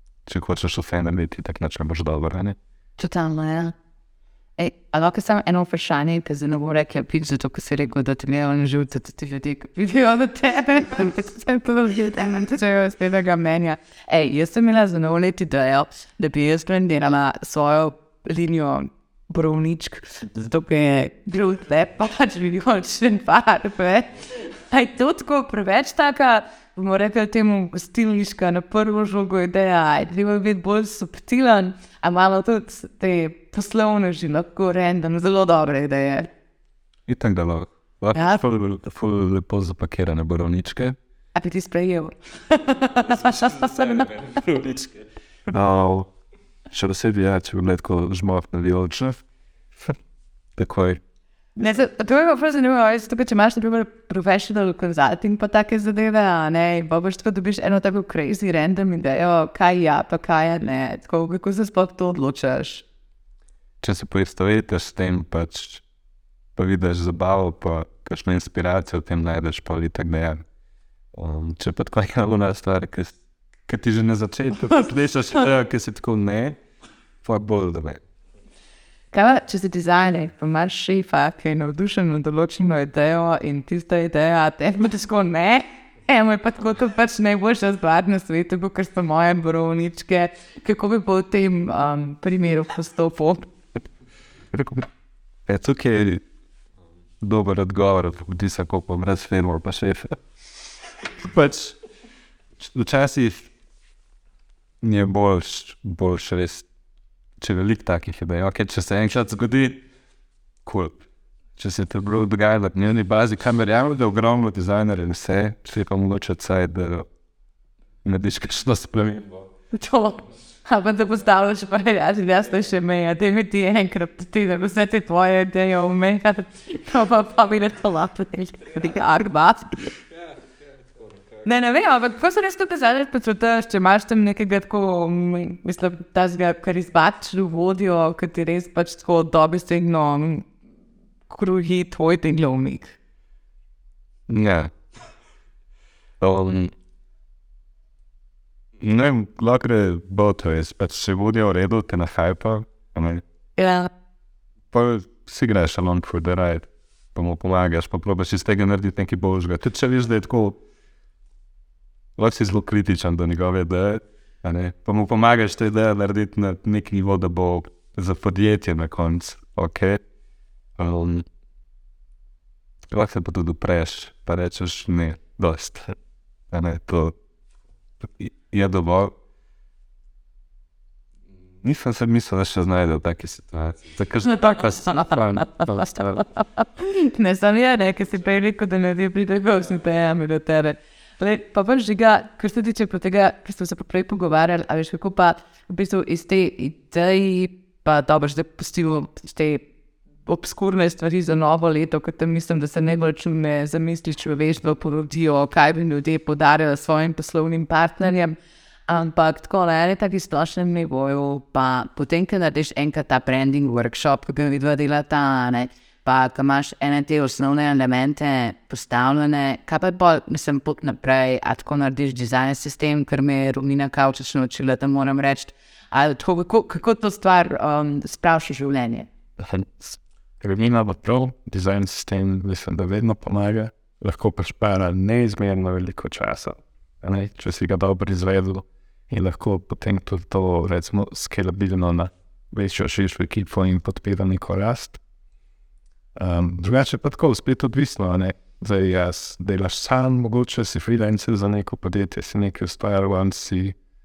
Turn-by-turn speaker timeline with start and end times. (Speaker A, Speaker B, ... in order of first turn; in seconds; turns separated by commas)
Speaker A: 0.2-2.6, Speaker B: 3.0-3.7, Speaker B: 4.6-36.3, Speaker A: 37.1-41.0, Speaker B: 38.1-38.4, Speaker B: 41.3-44.2, Speaker A: 43.6-46.1, Speaker A: 46.7-49.2, Speaker A: 50.6-51.0, Speaker B: 51.6-62.8, Speaker A: 63.8-65.8, Speaker A: 66.5-70.4, Speaker A: 71.1-73.2, Speaker A: 73.7-76.6, Speaker A: 77.2-78.0, Speaker B: 79.1-93.5, Speaker A: 94.5-94.8, Speaker A: 95.5-96.2, Speaker A: 97.2-100.2, Speaker A: 101.2-101.8, Speaker A: 102.6-103.5, Speaker A: 104.8-106.7, Speaker A: 107.4-109.8, Speaker A: 110.6-111.0, Speaker A: 111.6-117.1, Speaker A: 118.0-119.4, Speaker B: 119.7-129.9, Speaker B: 131.4-140.5, Speaker B: 141.3-142.9, Speaker A: 144.3-144.7, Speaker A: 146.2-146.7, Speaker A: 148.8-153.2, Speaker B: 153.6-153.9, Speaker A: 154.7-160.6, Speaker A: 162.2-170.0, Speaker A: 170.8-171.2, Speaker A: 172.9-175.9, Speaker A: 176.5-177.1, Speaker A: 178.0-179.1, Speaker A: 181.6-186.0, Speaker B: 184.2-199.6, Speaker B: 200.2-208.3, Speaker B: 208.9-229.1, Speaker C: 229.4-245.0, Speaker C: 246.2-253.7